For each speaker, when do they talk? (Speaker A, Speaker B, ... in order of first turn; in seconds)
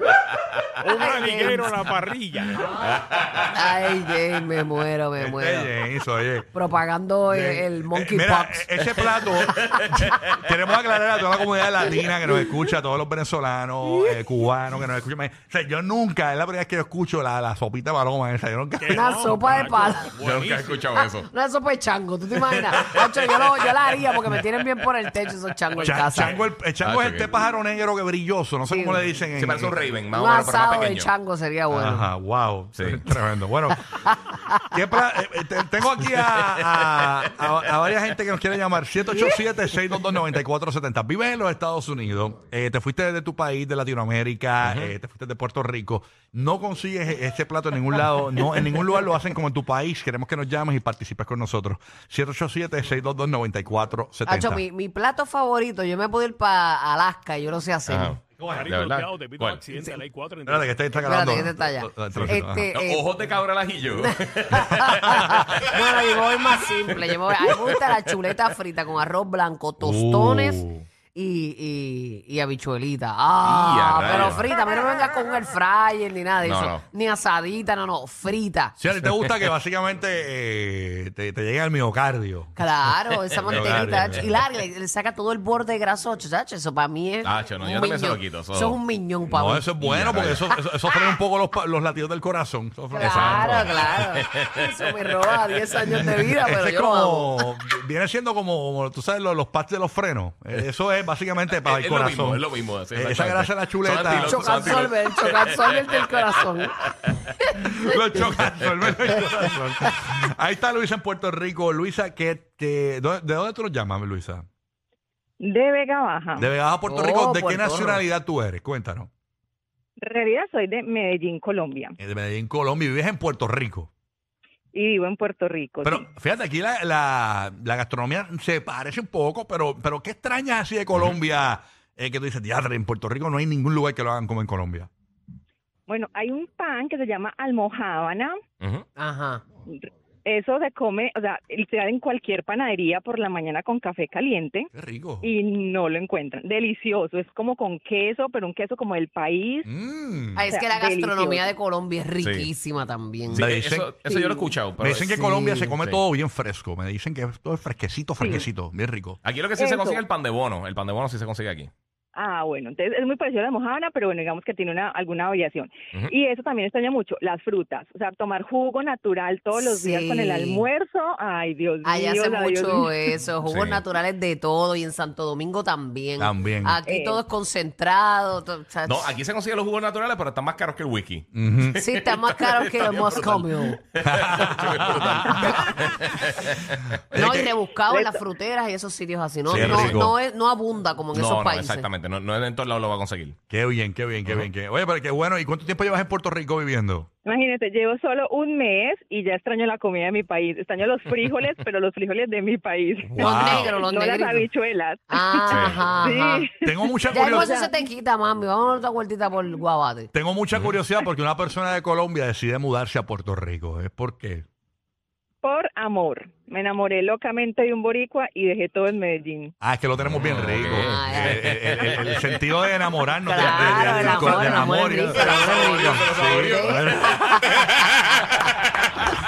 Speaker A: 0.8-2.8, 18.8-21.0, 58.4-60.8
Speaker B: 0.9-1.7, 3.5-5.7, 6.5-10.1, 18.9-20.1, 21.3-26.4, 28.7-29.0, 30.1-32.1, 33.7-34.7, 54.2-58.2, 60.9-63.1, 63.9-78.8, 82.6-89.7, 92.9-97.5, 104.0-106.8, 116.9-118.0, 139.0-139.4, 150.4-153.5, 154.1-154.4, 155.1-155.8, 169.6-170.7, 171.8-179.1, 181.8-183.8, 187.1-191.9, 203.2-204.5, 205.1-206.5, 207.1-210.1, 220.7-221.5, 223.2-227.6
Speaker C: 2.8-3.4, 20.2-21.3, 22.7-23.1, 26.2-27.3, 29.4-31.1, 36.2-37.1, 44.6-44.9, 57.9-59.6, 62.7-66.0, 73.4-74.5, 76.4-76.8, 83.5-84.2, 87.2-88.8, 89.8-90.4, 93.0-94.5, 101.5-106.4, 138.6-138.9, 152.2-152.5, 153.3-155.2, 155.8-156.0, 159.2-161.7, 173.4-173.8, 178.9-186.9, 189.5-190.0, 191.1-193.4, 205.5-205.8, 220.0-222.4, 223.4-229.1
Speaker D: 5.2-6.5, 7.3-19.6, 25.8-29.8, 31.7-33.8, 34.7-54.6, 58.4-58.7, 60.5-62.7, 65.1-65.5, 69.8-70.9, 78.8-82.6, 83.4-84.4, 89.3-93.9, 96.0-104.6, 107.6-114.4, 116.4-119.1, 122.0-123.9, 125.8-134.9, 144.7-145.3, 149.7-150.4, 153.3-153.9, 154.8-159.2, 176.2-176.8, 181.3-181.8, 184.0-185.6, 187.1-187.6, 189.5-190.1, 193.5-197.1, 203.0-203.8, 206.6-207.5, 210.1-214.4, 219.6-227.9
Speaker E: 115.4-116.5, 120.0-121.9, 124.7-126.1, 135.9-138.4, 139.7-144.7, 145.2-149.7, 150.5-151.5, 158.2-158.5, 159.6-160.0, 162.1-173.1, 176.9-177.2, 187.9-188.2, 197.2-207.7, 215.4-219.5